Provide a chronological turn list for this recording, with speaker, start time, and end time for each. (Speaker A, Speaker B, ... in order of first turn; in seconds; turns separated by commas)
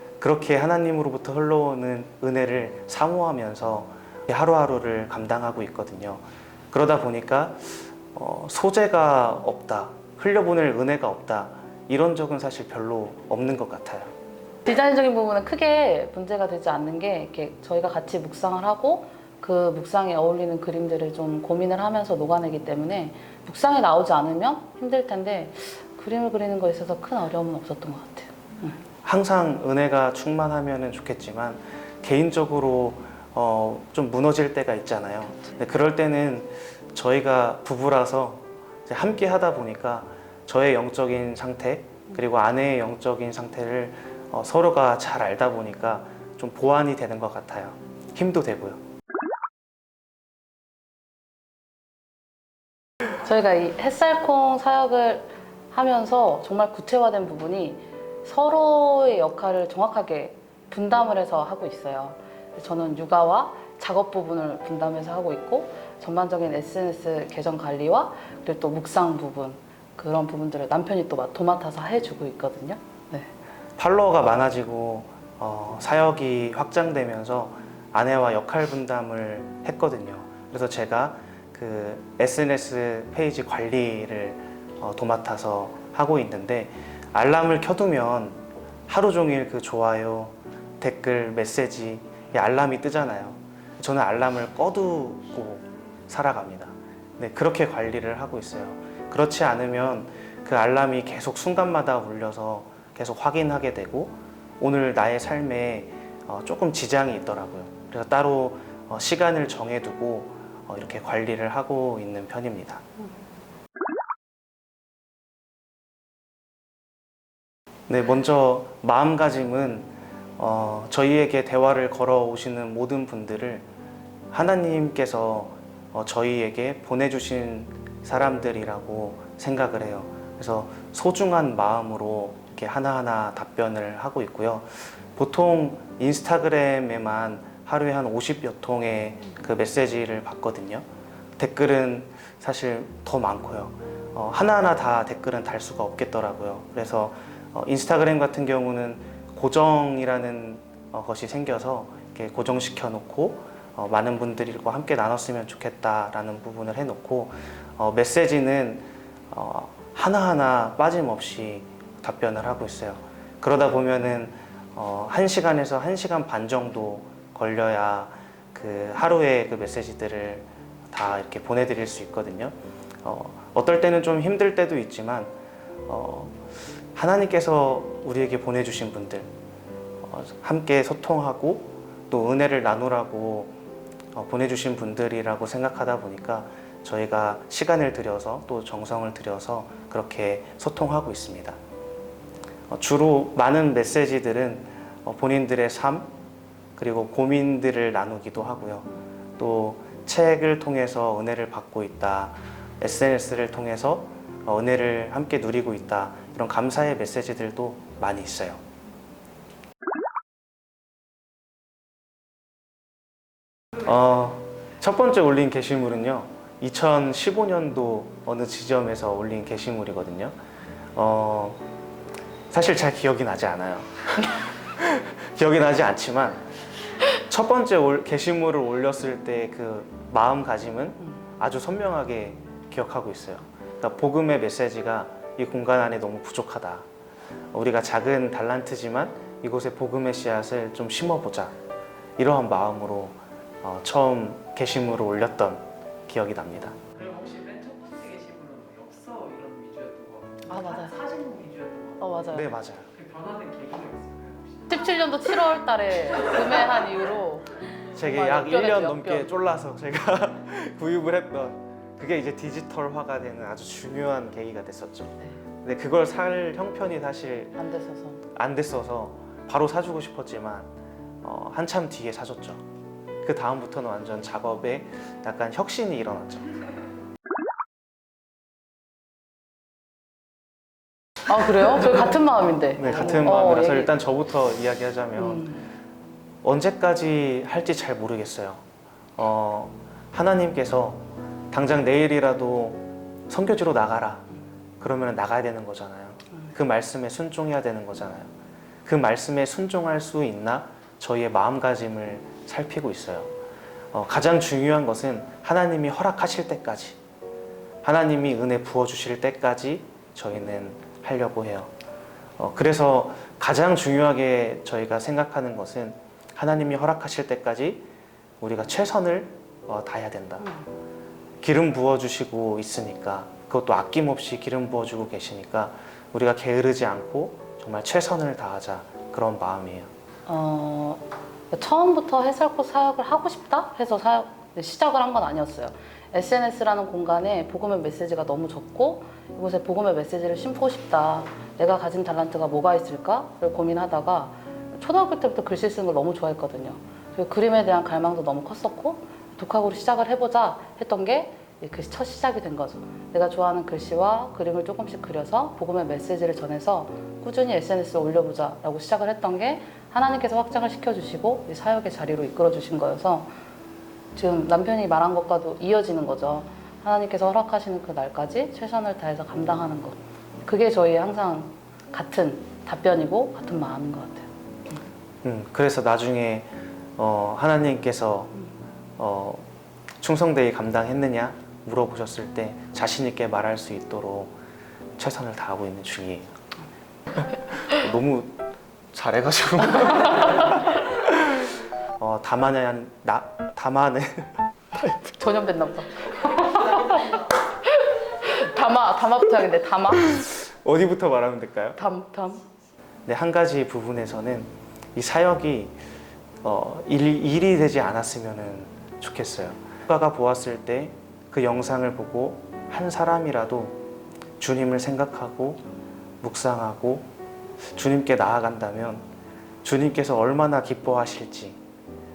Speaker A: 0.2-14.1, Speaker B: 14.7-28.8, Speaker A: 29.0-48.8, Speaker B: 53.1-73.3, Speaker A: 73.8-112.8, Speaker A: 117.9-123.7, Speaker A: 124.3-140.9, Speaker A: 141.4-175.3, Speaker A: 175.9-179.3, Speaker A: 180.0-183.5, Speaker A: 184.1-191.6, Speaker A: 192.7-196.1, Speaker A: 196.8-208.6, Speaker A: 213.8-220.4, Speaker A: 220.9-221.6, Speaker A: 222.5-226.5, Speaker A: 227.1-236.9, Speaker A: 237.5-241.6, Speaker A: 242.2-246.8, Speaker C: 247.0-250.4, Speaker B: 250.5-251.1, Speaker C: 251.1-251.8, Speaker B: 252.0-252.5, Speaker A: 252.3-252.9, Speaker C: 253.0-254.6, Speaker B: 254.7-259.3, Speaker A: 257.9-267.6, Speaker B: 267.6-268.2, Speaker A: 268.3-272.6, Speaker A: 273.2-276.6, Speaker B: 281.3-283.9, Speaker A: 282.8-285.5, Speaker B: 285.2-285.6, Speaker A: 286.4-288.6, Speaker A: 289.2-294.3, Speaker A: 294.8-298.3, Speaker A: 298.9-303.3, Speaker A: 303.9-307.0, Speaker A: 307.8-311.7, Speaker A: 312.4-317.9, Speaker A: 318.4-320.5, Speaker A: 321.4-329.9, Speaker B: 330.3-363.3, Speaker B: 364.1-374.8, Speaker A: 375.2-378.3, Speaker A: 379.0-379.5, Speaker A: 380.0-384.3, Speaker A: 385.0-386.3, Speaker A: 387.2-388.4, Speaker A: 388.9-395.0, Speaker B: 394.9-400.2, Speaker A: 400.1-401.8, Speaker B: 401.8-402.5, Speaker A: 403.1-405.8, Speaker A: 406.4-413.8, Speaker A: 414.4-415.6, Speaker A: 416.2-417.1, Speaker A: 417.6-419.1, Speaker A: 419.6-421.6